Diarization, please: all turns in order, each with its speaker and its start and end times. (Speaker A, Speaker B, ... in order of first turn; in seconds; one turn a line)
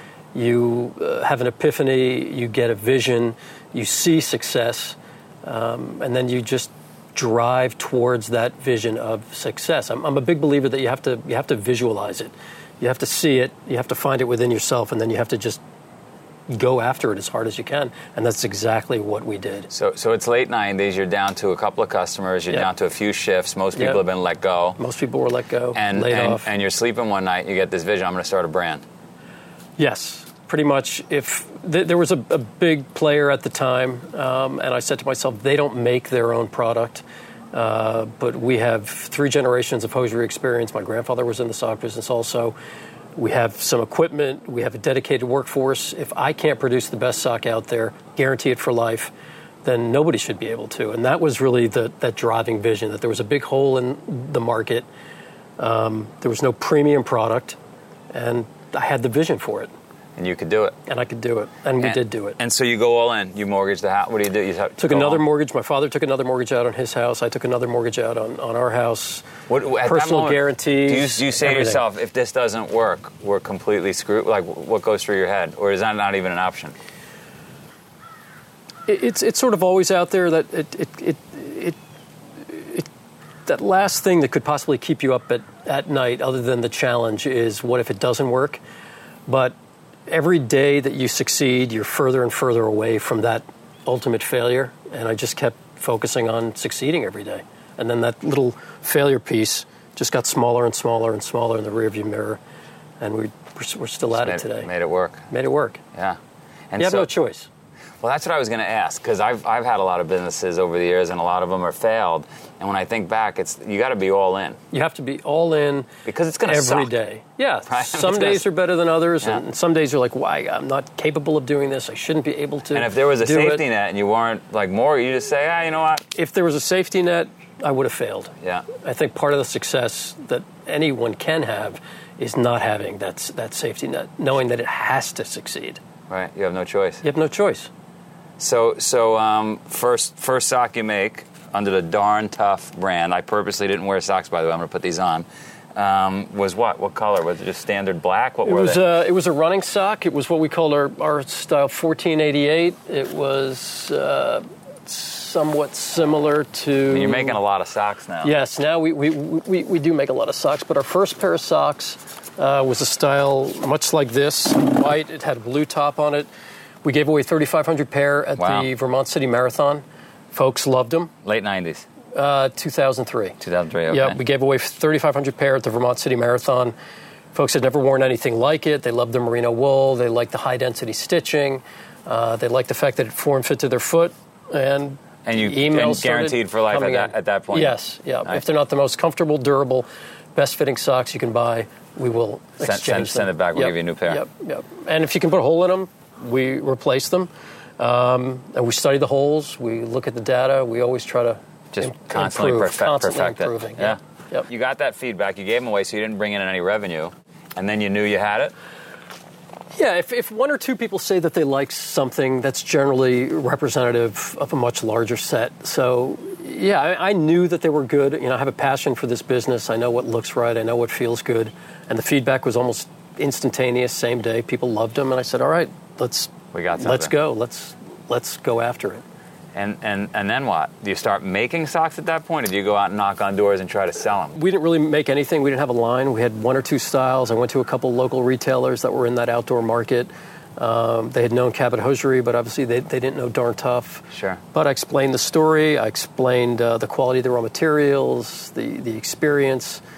Speaker A: 0.3-15.6
Speaker A: 16.5-19.7
Speaker B: 19.7-24.8
Speaker A: 23.8-24.0
Speaker A: 24.8-26.5
Speaker B: 25.7-28.8
Speaker A: 29.8-42.5
Speaker A: 43.2-49.1
Speaker A: 49.6-54.9
Speaker A: 55.6-57.6
Speaker A: 58.1-59.7
Speaker B: 60.2-60.8
Speaker A: 60.9-62.4
Speaker B: 61.8-65.2
Speaker A: 64.8-69.3
Speaker B: 69.5-76.7
Speaker A: 69.8-71.8
Speaker A: 78.9-81.8
Speaker A: 82.5-82.9
Speaker A: 83.5-88.6
Speaker A: 89.3-89.6
Speaker A: 90.1-102.4
Speaker A: 103.0-104.7
Speaker B: 104.1-105.2
Speaker A: 105.3-105.8
Speaker B: 106.7-107.1
Speaker A: 106.8-107.5
Speaker B: 108.0-114.6
Speaker A: 114.7-115.9
Speaker B: 116.1-116.9
Speaker A: 116.5-123.6
Speaker B: 117.7-118.4
Speaker B: 122.7-126.0
Speaker A: 126.2-135.8
Speaker B: 136.1-137.0
Speaker A: 137.0-137.7
Speaker B: 138.4-148.8
Speaker A: 148.5-157.4
Speaker B: 156.9-158.3
Speaker A: 158.2-166.3
Speaker A: 166.8-171.1
Speaker B: 168.4-168.7
Speaker B: 171.2-171.9
Speaker A: 172.1-173.4
Speaker B: 173.4-174.2
Speaker A: 173.9-176.7
Speaker A: 177.3-204.5
Speaker B: 185.2-188.4
Speaker B: 192.6-194.2
Speaker B: 201.7-208.5
Speaker A: 209.8-229.0
Speaker B: 226.5-227.1
Speaker B: 229.6-234.4
Speaker A: 234.3-249.8
Speaker B: 244.1-244.4